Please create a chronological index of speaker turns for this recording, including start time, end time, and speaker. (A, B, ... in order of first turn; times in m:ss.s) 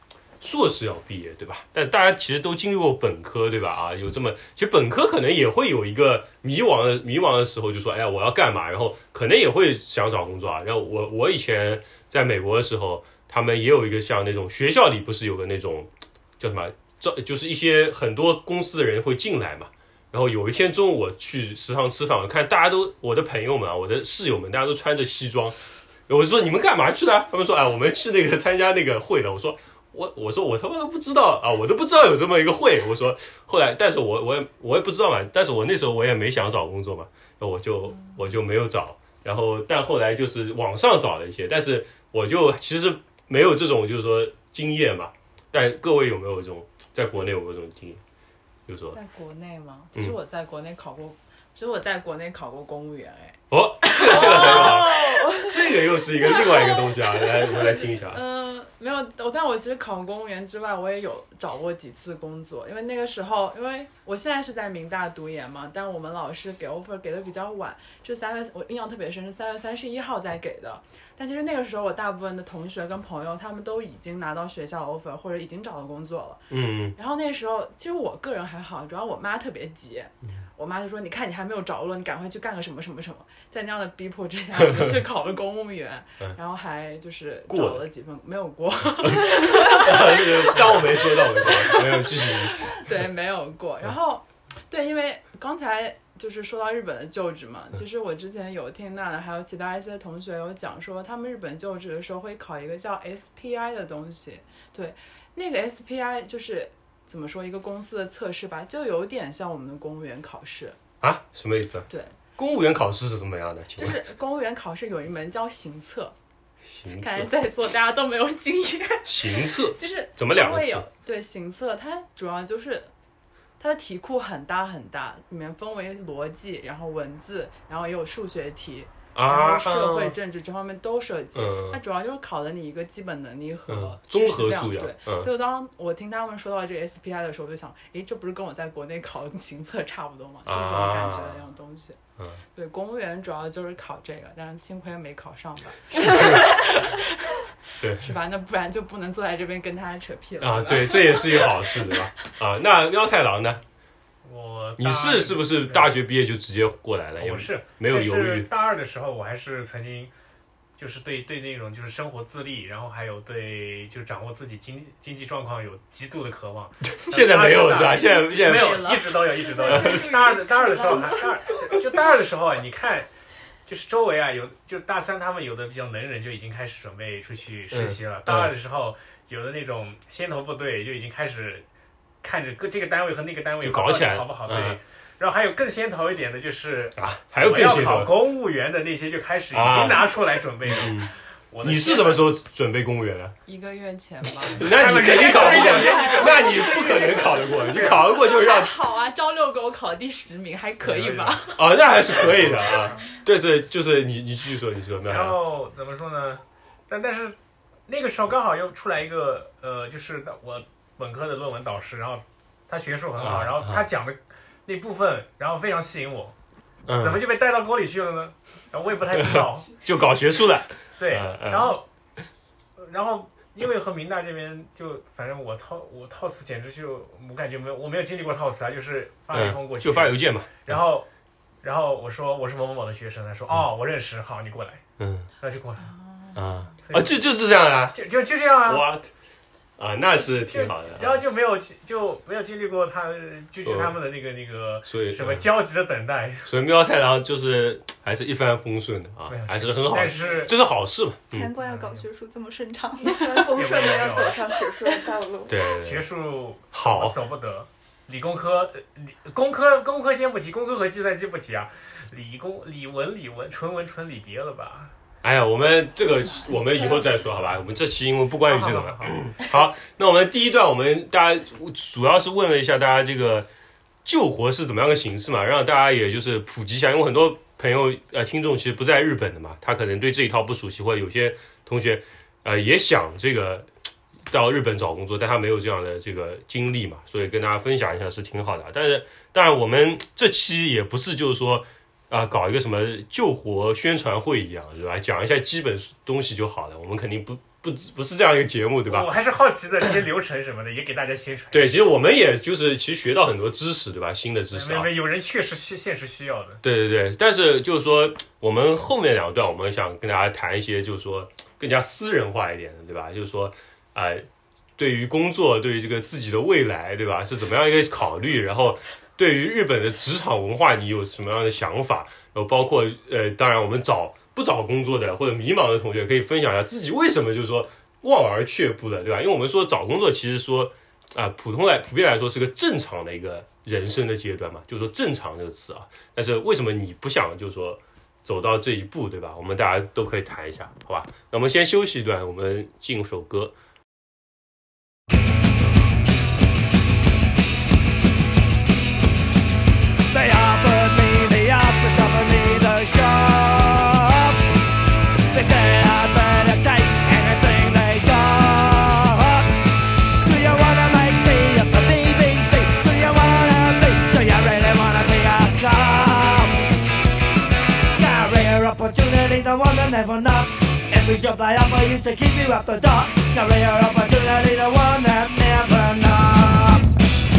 0:00.4-0:25.6 A
0:26.1-0:48.0 A
0:48.7-0:49.0 A
0:48.9-0:55.5 B
0:53.5-0:58.2 A
0:54.1-0:55.5 C
0:56.3-1:50.8 B
1:16.5-1:17.0 A
1:24.6-1:24.9 A
1:27.5-1:27.9 A
1:29.0-1:32.7 A
1:51.0-1:54.0 A
1:51.9-1:52.2 B
1:53.8-1:56.2 B
1:56.7-1:57.3 A
1:57.0-2:02.9 B
1:59.0-2:00.9 A
2:03.6-2:22.0 B
2:09.2-2:10.2 A
2:11.3-2:11.8 A
2:13.7-2:15.3 A
2:20.5-2:21.4 A
2:22.5-2:32.1 B
2:25.9-2:26.9 A
2:27.8-2:28.1 A
2:30.4-2:33.6 A
2:34.2-2:36.0 D
2:34.8-2:38.5 A
2:37.2-2:40.1 D
2:40.8-2:53.1 D
2:46.9-2:49.0 A
2:48.1-2:51.6 B
2:49.6-2:50.1 A
2:53.7-3:01.7 D
2:57.7-2:58.5 A
3:02.2-3:12.3 D
3:03.6-3:04.8 A
3:07.0-3:08.2 A
3:09.5-3:10.1 A
3:10.6-3:11.1 A
3:11.6-3:13.4 A
3:13.5-3:21.8 B
3:14.5-3:18.8 A
3:14.5-3:18.0 D
3:20.8-3:21.5 D
3:21.6-3:25.4 A
3:22.2-3:23.1 D
3:22.6-3:23.0 B
3:25.1-3:36.4 D
3:33.2-3:33.9 A
3:36.9-3:37.2 A
3:37.0-3:39.8 D
3:39.2-3:41.8 A
3:41.0-3:41.9 D
3:42.8-3:51.1 D
3:49.3-3:50.8 A
3:51.6-3:54.8 D
3:55.0-3:55.3 A
3:55.4-3:55.9 D
3:55.8-3:56.7 B
3:56.4-3:58.0 A
3:56.8-3:57.2 D
3:57.9-3:58.9 D
3:58.6-3:59.1 A
3:59.8-4:01.2 A
4:00.4-4:06.5 D
4:03.6-4:04.0 A
4:04.9-4:05.5 A
4:06.5-4:11.5 A
4:09.3-4:10.5 D
4:11.3-4:13.7 E
4:11.6-4:12.0 D
4:13.0-4:15.6 C
4:13.5-4:14.4 D
4:15.5-4:16.1 A
4:15.8-4:24.9 D
4:16.7-4:17.2 A
4:25.2-4:33.5 A
4:26.2-4:27.0 B
4:28.5-4:29.2 D
4:34.0-4:43.7 A
4:44.3-4:59.1 A
4:58.9-5:01.8 D
5:01.5-5:04.9 A
5:04.5-5:06.6 D
5:06.6-5:14.2 A
5:14.8-5:43.5 A
5:50.1-5:54.4 F
5:55.3-5:59.5 F
6:00.2-6:06.5 F
6:08.0-6:16.8 F